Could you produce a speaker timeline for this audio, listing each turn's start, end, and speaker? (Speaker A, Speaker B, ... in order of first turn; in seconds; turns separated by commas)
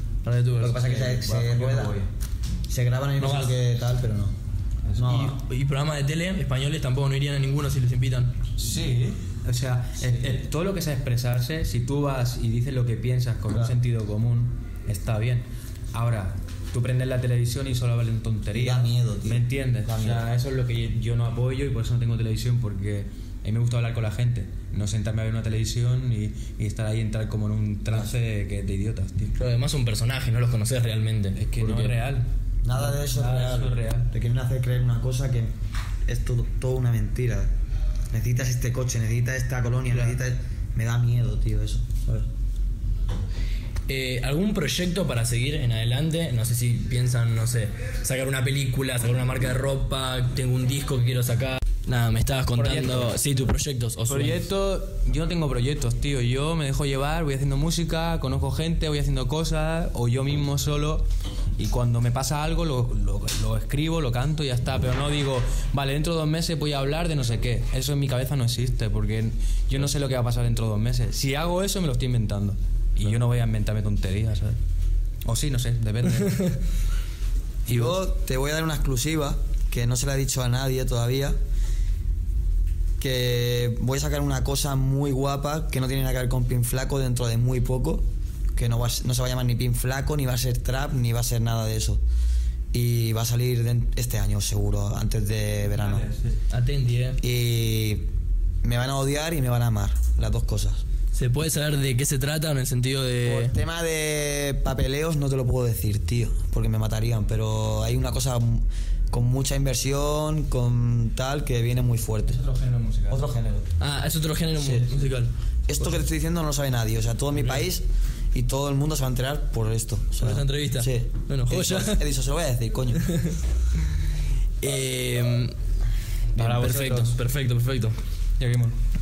Speaker A: 0.2-1.0, Speaker B: 0.6-2.0, Speaker C: 0.8-2.1, Speaker B: 2.7-4.3, Speaker A: 3.2-3.6, Speaker C: 4.9-5.2, Speaker B: 5.0-5.4, Speaker A: 5.0-8.4, Speaker C: 8.6-29.3, Speaker B: 18.5-20.3, Speaker A: 29.4-31.9, Speaker C: 31.3-34.1, Speaker B: 32.6-35.5, Speaker B: 36.1-37.5, Speaker B: 38.1-42.3, Speaker C: 39.9-40.2, Speaker A: 43.9-54.5, Speaker C: 52.5-53.2, Speaker C: 54.1-61.0, Speaker C: 61.6-74.6, Speaker C: 75.2-76.6, Speaker C: 77.7-78.0, Speaker B: 77.7-81.3, Speaker B: 83.0-92.0, Speaker B: 92.7-96.1, Speaker C: 95.7-96.3, Speaker A: 96.5-97.2, Speaker B: 97.2-98.1, Speaker B: 98.6-100.8, Speaker A: 101.1-103.5, Speaker B: 103.2-112.4, Speaker C: 112.3-113.3, Speaker B: 113.1-113.7, Speaker A: 113.8-115.3, Speaker B: 114.6-114.9, Speaker B: 115.7-123.0, Speaker A: 120.2-122.0, Speaker A: 123.0-123.4, Speaker A: 124.6-125.5, Speaker C: 126.3-127.2, Speaker A: 126.3-128.0, Speaker C: 128.4-128.8